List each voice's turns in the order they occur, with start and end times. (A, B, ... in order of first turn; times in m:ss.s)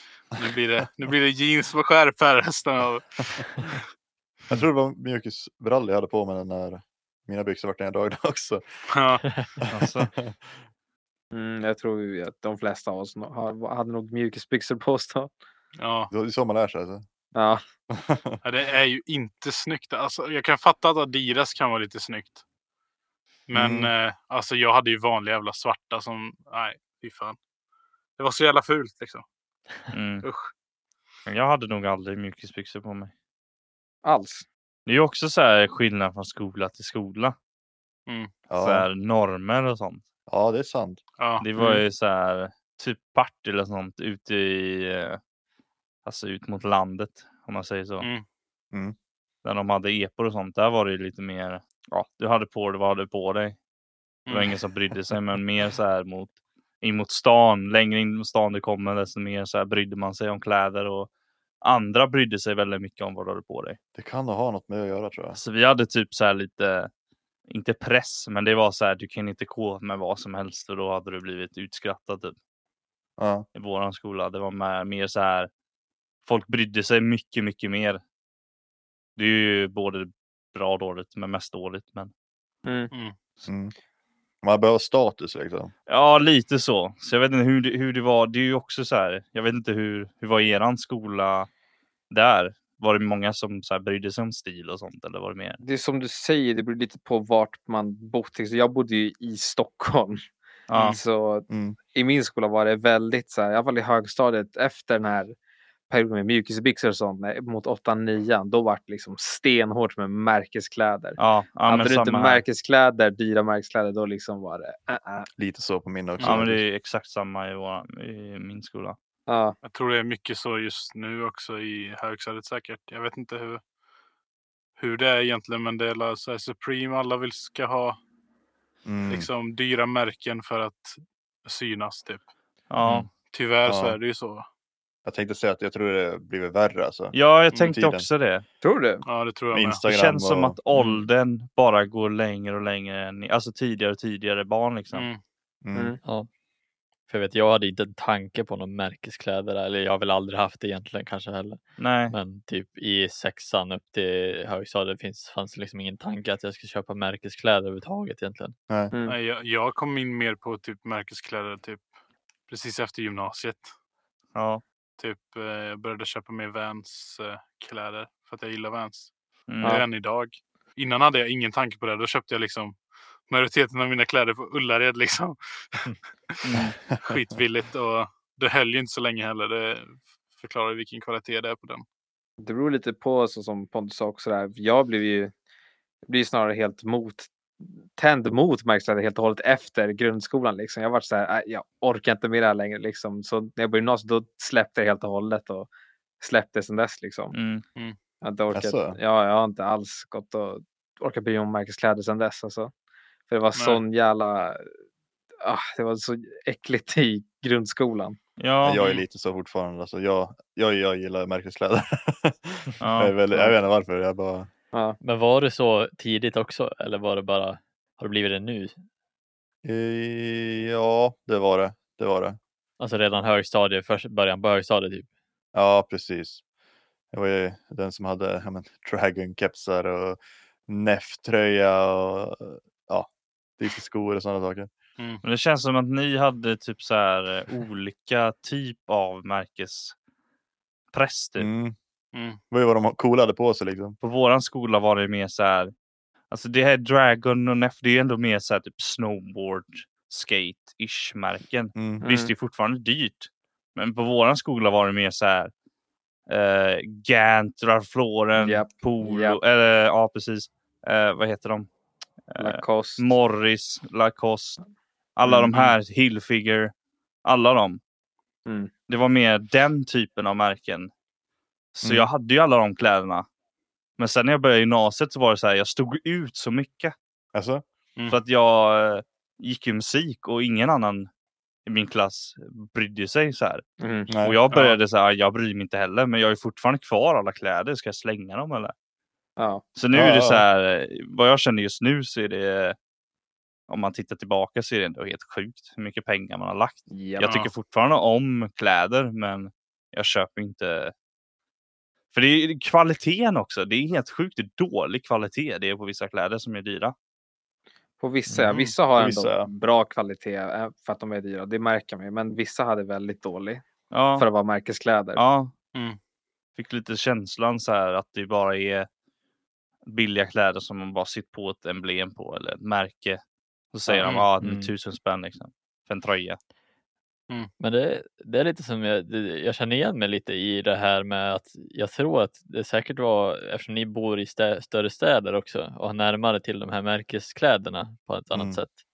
0:00.2-0:03.8 A
0:04.5-0:08.6 B
0:08.9-0:09.2 A
0:09.6-0:10.4 B
0:09.7-0:10.1 C
0:11.3-0:15.3 D
0:15.8-0:16.1 A
0:16.1-0:17.0 B
0:17.3-0:17.6 D
0:17.9-0:18.4 B
0:18.4-0:22.4 A
0:23.5-0:27.4 A
0:23.5-0:23.9 B
0:28.2-0:29.2 A
0:29.9-0:30.3 C
0:30.2-0:30.5 A
0:31.3-0:33.1 C
0:34.0-0:34.4 D
0:34.9-0:37.4 C
0:38.1-0:38.3 A
0:38.5-0:38.9 B
0:38.6-0:40.0 C
0:40.3-0:41.0 B
0:41.2-0:41.5 A
0:41.4-0:45.2 C
0:46.0-0:48.1 C
0:49.4-0:53.6 C
0:54.3-0:54.6 A
0:54.3-1:01.1 C
1:01.6-1:03.8 C
1:04.0-1:05.4 B
1:05.3-1:06.9 C
1:07.5-1:12.4 C
1:13.2-1:13.5 B
1:13.6-1:15.5 C
1:16.3-1:18.0 C
1:19.2-1:22.1 C
1:22.6-1:22.9 D
1:23.5-1:23.7 B
1:24.4-1:25.7 B
1:25.9-1:31.5 C
1:32.1-1:35.6 C
1:35.6-1:40.2 D
1:40.7-1:41.0 C
1:40.8-1:45.4 D
1:41.5-1:41.8 B
1:45.9-1:55.3 D
1:51.2-1:52.4 C
1:55.4-1:56.6 B
1:56.2-1:59.0 C
1:59.3-1:59.6 D
1:59.6-2:03.6 A
2:04.8-2:08.0 A
2:08.9-2:09.3 B
2:09.1-2:12.3 A
2:12.7-2:13.1 C
2:13.1-2:14.4 A
2:13.7-2:14.0 B
2:15.0-2:18.1 B
2:17.1-2:18.4 C
2:17.5-2:17.8 A
2:18.6-2:19.0 D
2:19.0-2:19.8 A
2:19.5-2:20.6 B
2:19.9-2:25.1 C
2:20.8-2:21.0 E
2:24.9-2:25.2 A
2:25.6-2:26.0 B
2:27.1-2:38.6 E
2:31.8-2:32.2 C
2:38.9-2:39.2 D
2:39.1-2:41.9 A
2:42.5-2:43.7 A
2:44.4-2:44.6 C
2:45.0-2:49.1 A
2:49.5-2:49.8 C
2:49.6-3:01.8 A
2:56.4-2:56.8 C
3:02.4-3:05.3 D
3:06.1-3:15.7 D
3:16.2-3:17.3 D
3:17.3-3:17.6 C
3:18.2-3:22.7 D
3:18.5-3:19.0 B
3:23.3-3:24.7 D
3:23.6-3:23.8 A
3:25.4-3:28.2 D
3:28.4-3:28.9 C
3:28.6-3:34.5 B
3:32.8-3:33.1 C
3:34.7-3:35.0 D
3:35.0-3:38.8 E
3:39.6-3:42.4 B
3:42.8-3:45.1 E
3:45.5-3:46.4 B
3:47.1-3:54.7 B
3:55.2-4:00.0 C
4:00.9-4:01.5 C
4:01.4-4:01.8 B
4:02.1-4:02.4 A
4:02.5-4:04.0 B
4:04.0-4:05.7 C
4:06.3-4:15.5 C
4:11.8-4:12.0 B
4:12.0-4:12.3 D
4:16.3-4:21.7 C
4:18.4-4:19.4 D
4:22.3-4:24.6 C
4:22.4-4:23.1 D
4:25.2-4:26.7 C
4:27.2-4:27.8 C
4:28.5-4:28.7 D
4:28.9-4:30.9 C
4:31.7-4:33.3 C
4:31.8-4:32.1 B
4:34.0-4:36.9 C
4:37.3-4:37.6 B
4:38.1-4:41.1 C
4:41.7-4:43.6 C
4:43.8-4:44.1 D
4:44.1-4:44.4 B
4:44.2-4:48.7 C
4:44.5-4:44.8 A
4:49.8-4:52.8 C
4:49.9-4:50.4 B
4:53.7-5:00.9 C
4:56.9-4:57.5 D
5:02.1-5:06.9 C
5:08.0-5:13.6 D
5:09.0-5:09.5 B
5:13.9-5:14.3 C
5:14.2-5:15.2 D
5:15.2-5:15.5 C
5:16.6-5:18.9 C
5:19.9-5:23.2 C
5:23.7-5:26.4 C
5:24.4-5:24.7 E
5:27.6-5:38.8 E
5:38.3-5:38.6 B